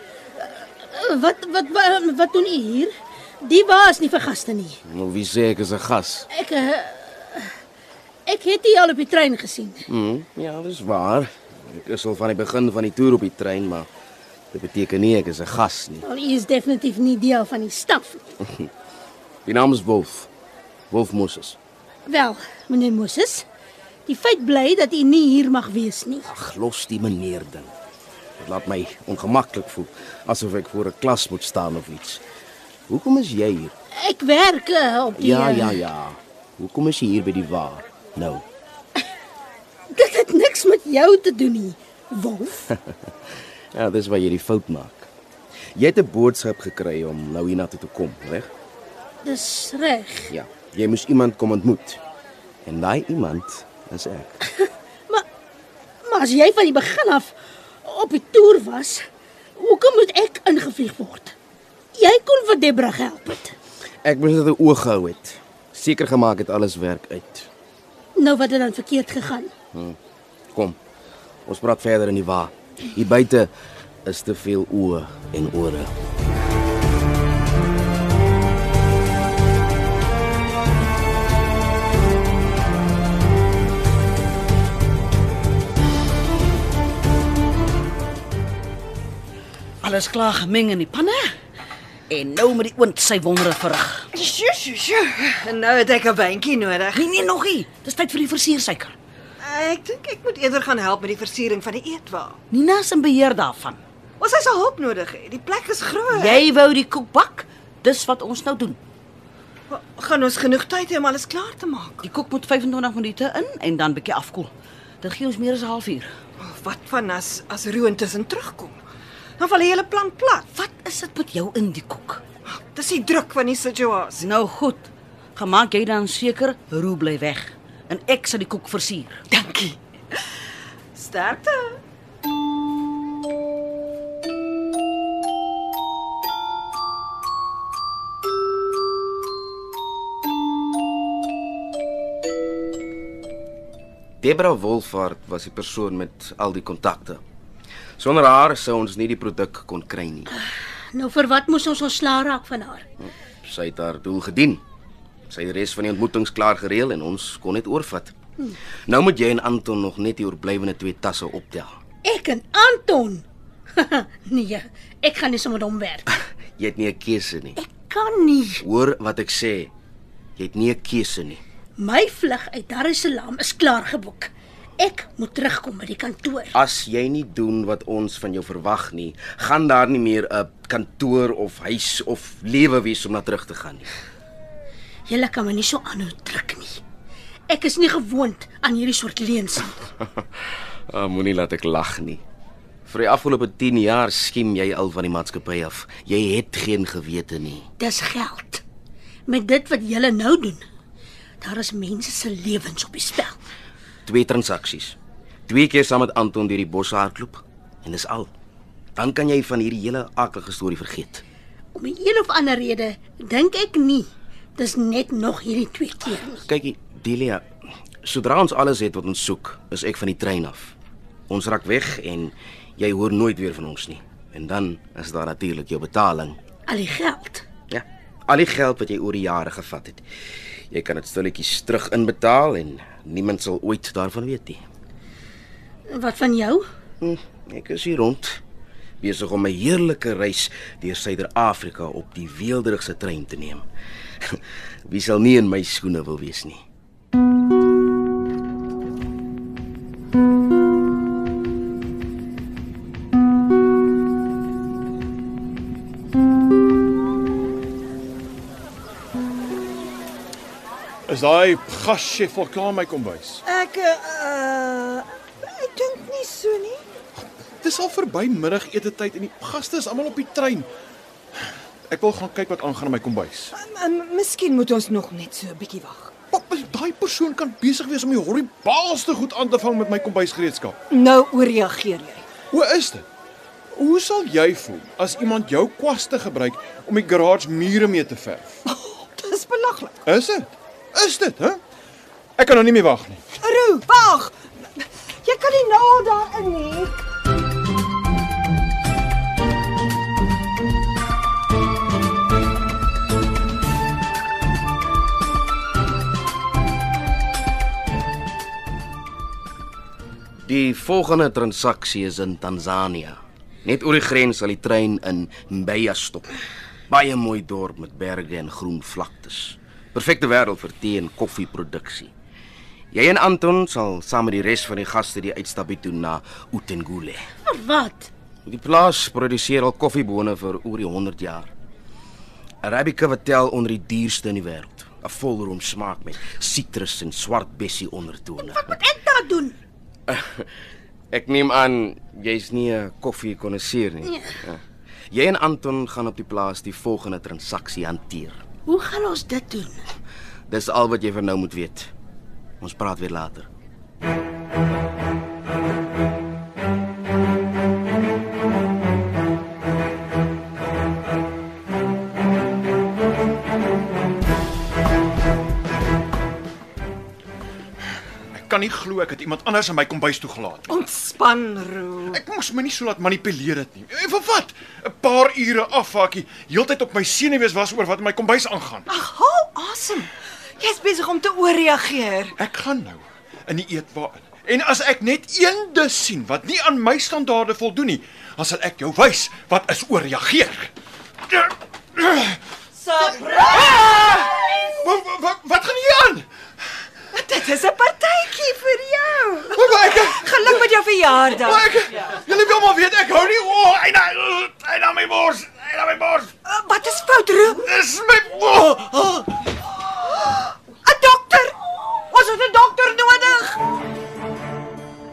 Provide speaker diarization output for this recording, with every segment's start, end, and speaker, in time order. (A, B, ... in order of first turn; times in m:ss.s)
0:00.4-0:04.8 A
0:04.8-0:06.3 B
0:06.3-0:07.5 A
0:08.2-0:09.8 A
0:09.9-0:13.9 B
0:14.5-0:16.0 B
0:16.0-0:18.2 A
0:19.4-0:20.3 B
0:20.9-0:21.6 B
0:22.0-0:23.4 A
0:24.0-0:26.3 A
0:26.2-0:27.7 B
0:28.4-0:32.2 B
0:32.9-0:33.7 B
0:33.9-0:35.8 A
0:35.1-0:38.4 B
0:39.9-0:42.7 A
0:43.7-0:45.1 B
0:45.8-0:48.5 B
0:49.2-0:50.3 A
0:50.3-0:52.0 B
0:52.6-0:54.4 B
0:56.0-0:59.0 A
0:59.6-1:01.3 A
1:02.0-1:03.5 A
1:04.0-1:07.5 B
1:08.2-1:09.5 A
1:10.5-1:10.8 B
1:11.4-1:13.5 B
1:14.0-1:15.9 B
1:29.8-1:31.3 C
1:32.1-1:34.1 C
1:34.1-1:37.1 D
1:36.9-1:38.9 C
1:39.4-1:42.4 D
1:42.5-1:43.8 C
1:44.2-1:46.4 D
1:46.1-1:48.8 C
1:49.7-1:52.0 D
1:52.0-1:56.1 C
1:56.4-1:58.8 D
1:59.4-2:00.5 D
2:00.5-2:02.2 C
2:02.5-2:04.3 D
2:04.2-2:09.2 C
2:09.3-2:10.2 D
2:11.0-2:11.8 D
2:24.2-2:27.2 B
2:28.0-2:30.3 B
2:30.9-2:32.8 A
2:33.4-2:34.6 B
2:35.3-2:38.1 B
2:38.9-2:41.7 B
2:42.0-2:46.1 A
2:46.6-2:47.6 B
2:47.6-2:48.6 A
2:48.6-2:49.7 B
2:50.4-2:51.4 B
2:51.8-2:56.5 A
2:56.5-3:03.9 B
3:05.1-3:06.8 A
3:07.5-3:09.8 A
3:10.9-3:12.2 B
3:12.8-3:17.7 B
3:17.8-3:18.6 A
3:19.3-3:20.6 A
3:21.4-3:23.4 A
3:24.0-3:28.3 B
3:29.0-3:31.2 B
3:31.7-3:36.4 A
3:36.3-3:37.4 B
3:38.0-3:40.7 B
3:41.3-3:46.4 B
3:46.7-3:47.4 A
3:47.7-3:50.0 B
3:50.7-3:54.6 B
3:55.9-3:56.6 A
3:57.0-3:58.4 B
3:59.0-4:03.6 B
4:04.2-4:06.6 B
4:21.1-4:23.4 E
4:23.4-4:26.8 D
4:27.2-4:30.7 E
4:31.9-4:33.5 E
4:33.5-4:36.2 D
4:36.3-4:40.8 E
4:40.9-4:42.3 D
4:42.5-4:43.1 E
4:43.7-4:48.6 E
4:48.6-4:50.0 D
4:50.0-4:51.6 E
4:52.4-4:53.2 E
4:53.4-4:56.9 D
5:10.4-5:16.4 B
5:16.9-5:22.1 B
5:22.9-5:27.3 B
5:27.4-5:28.1 A
5:28.4-5:31.5 B
5:32.6-5:38.8 B
5:38.4-5:39.6 A
5:40.1-5:40.5 B
5:41.1-5:48.4 B
5:48.6-5:49.8 A
5:50.5-5:51.9 B
5:52.6-5:53.5 B
6:08.3-6:10.7 E
6:10.7-6:12.2 D
6:12.1-6:18.9 E
6:18.9-6:22.3 D
6:22.4-6:30.7 E
6:31.3-6:32.4 E
6:32.8-6:34.7 D
6:33.0-6:36.3 E
6:37.1-6:42.1 D
6:39.5-6:40.3 E
6:41.3-6:46.3 E
6:46.4-6:47.6 D
6:47.6-6:49.4 E
6:50.8-6:53.6 D